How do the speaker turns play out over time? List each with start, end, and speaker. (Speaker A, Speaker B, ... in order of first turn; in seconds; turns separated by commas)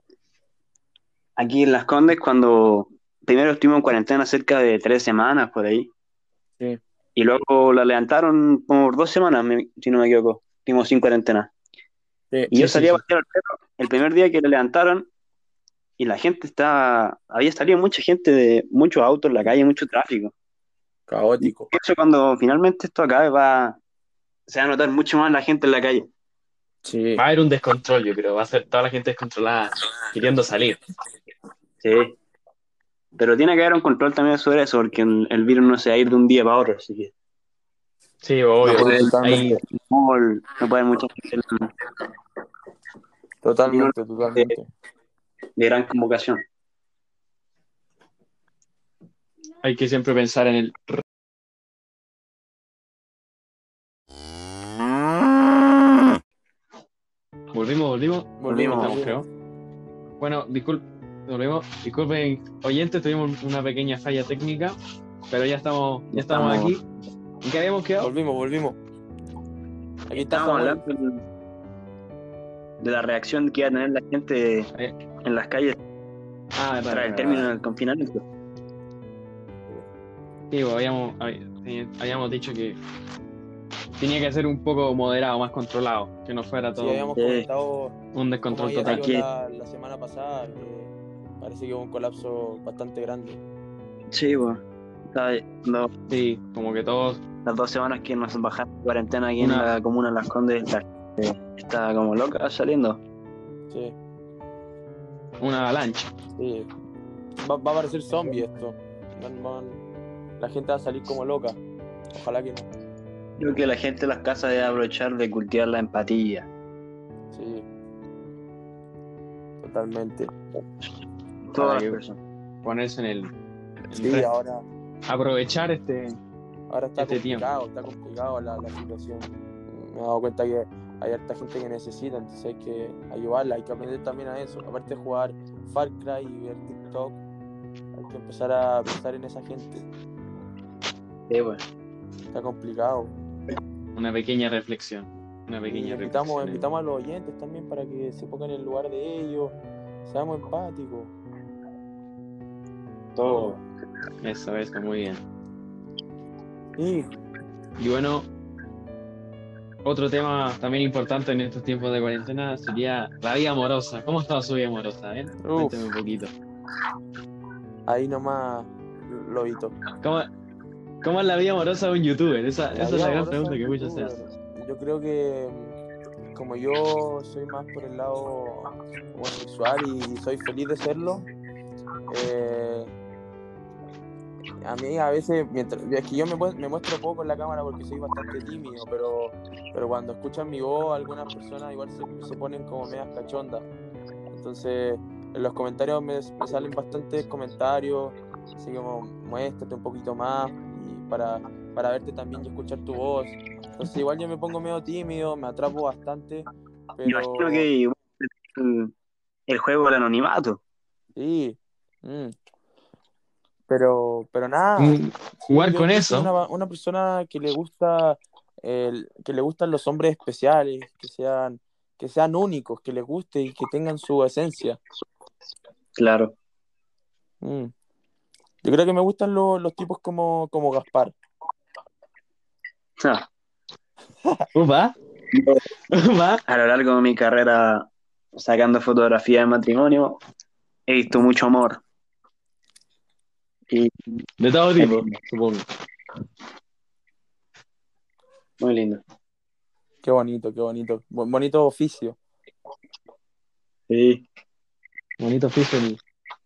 Speaker A: 1.4-5.9, Speaker A: 7.2-11.5, Speaker B: 12.3-13.0, Speaker A: 12.5-15.1, Speaker A: 16.0-20.3, Speaker B: 21.1-21.7, Speaker A: 21.4-23.8, Speaker A: 24.5-26.1, Speaker B: 26.8-27.2, Speaker C: 27.2-30.8, Speaker A: 31.8-32.2, Speaker A: 33.2-37.1, Speaker C: 38.2-39.6, Speaker B: 38.6-39.5, Speaker A: 38.6-41.7, Speaker B: 43.4-44.7, Speaker A: 43.7-44.5, Speaker A: 45.6-46.4, Speaker C: 49.6-51.0, Speaker C: 57.5-59.2, Speaker B: 58.4-59.2, Speaker A: 58.5-59.0, Speaker C: 60.2-64.8, Speaker C: 65.3-66.8, Speaker A: 66.1-66.7, Speaker C: 67.4-68.1, Speaker B: 68.0-68.8, Speaker B: 70.1-70.8, Speaker A: 70.1-71.2, Speaker A: 72.8-74.7, Speaker A: 75.2-75.8, Speaker C: 76.5-77.5, Speaker A: 76.9-78.2, Speaker C: 80.5-82.8, Speaker C: 84.0-87.1, Speaker B: 86.8-87.9, Speaker A: 87.2-87.5, Speaker C: 88.1-89.0, Speaker B: 88.5-93.4, Speaker A: 88.8-89.2, Speaker A: 94.1-94.6, Speaker A: 95.1-95.9, Speaker C: 96.1-97.2, Speaker A: 97.4-103.0, Speaker C: 99.4-99.7, Speaker B: 103.7-103.9, Speaker C: 105.4-106.1, Speaker B: 106.4-106.7, Speaker B: 107.4-109.8, Speaker B: 110.4-111.6, Speaker B: 112.1-112.7, Speaker A: 113.4-116.5, Speaker B: 117.3-117.7, Speaker B: 119.6-120.3, Speaker A: 121.5-122.2, Speaker C: 121.6-122.0, Speaker C: 122.6-123.3, Speaker C: 123.9-124.3, Speaker B: 124.0-124.6, Speaker C: 125.1-126.2, Speaker B: 126.7-137.2, Speaker C: 127.0-127.4, Speaker B: 137.9-139.8, Speaker A: 141.3-141.6, Speaker B: 142.3-143.1, Speaker C: 143.9-146.6, Speaker B: 145.7-151.1, Speaker A: 153.2-153.6, Speaker C: 154.2-155.2, Speaker B: 156.8-157.1, Speaker C: 157.8-158.2, Speaker C: 159.8-166.3, Speaker B: 165.4-165.9, Speaker B: 167.9-169.7, Speaker C: 170.0-170.3, Speaker C: 171.0-174.1, Speaker B: 172.7-175.8, Speaker B: 176.3-181.2, Speaker B: 182.1-182.9, Speaker B: 184.6-193.7, Speaker B: 194.3-207.7, Speaker A: 207.0-208.9, Speaker A: 209.5-210.6, Speaker B: 211.2-212.3, Speaker B: 213.7-224.8, Speaker C: 214.8-216.3, Speaker A: 226.0-226.3, Speaker B: 227.4-227.7, Speaker B: 228.6-231.2, Speaker A: 233.0-233.2, Speaker C: 234.5-234.9, Speaker A: 235.3-235.6, Speaker C: 235.9-236.4, Speaker A: 236.4-240.2, Speaker A: 240.9-241.8, Speaker A: 243.7-244.2, Speaker C: 244.4-245.6, Speaker A: 244.8-245.2, Speaker A: 248.6-249.0, Speaker B: 250.0-252.2, Speaker A: 253.9-254.2, Speaker C: 255.2-256.0